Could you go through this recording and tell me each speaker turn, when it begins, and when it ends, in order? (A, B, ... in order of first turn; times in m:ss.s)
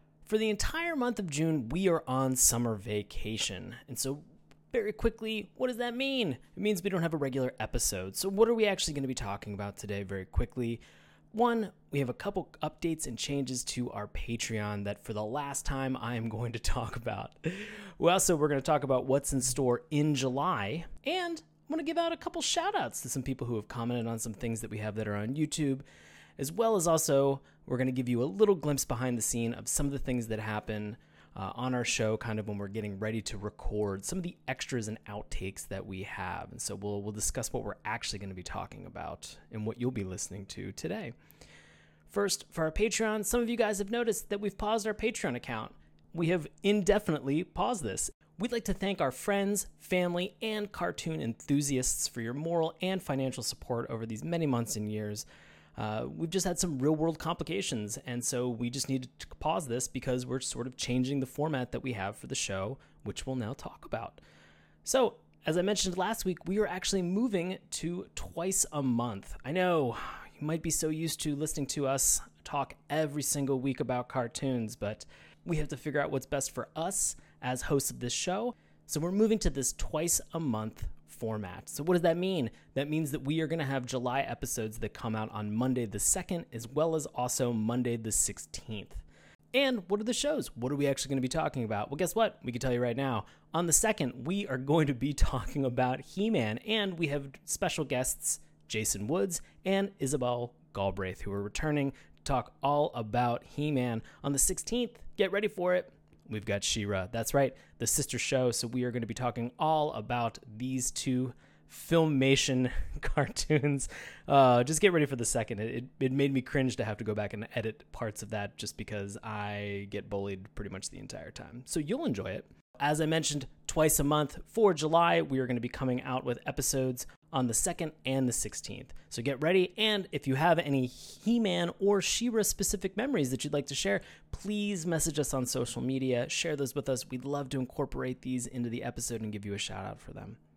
0:00.2-0:25.8 A
0:26.4-0:41.1 A
0:42.1-0:55.2 A
0:55.8-1:04.2 A
1:04.8-2:20.4 A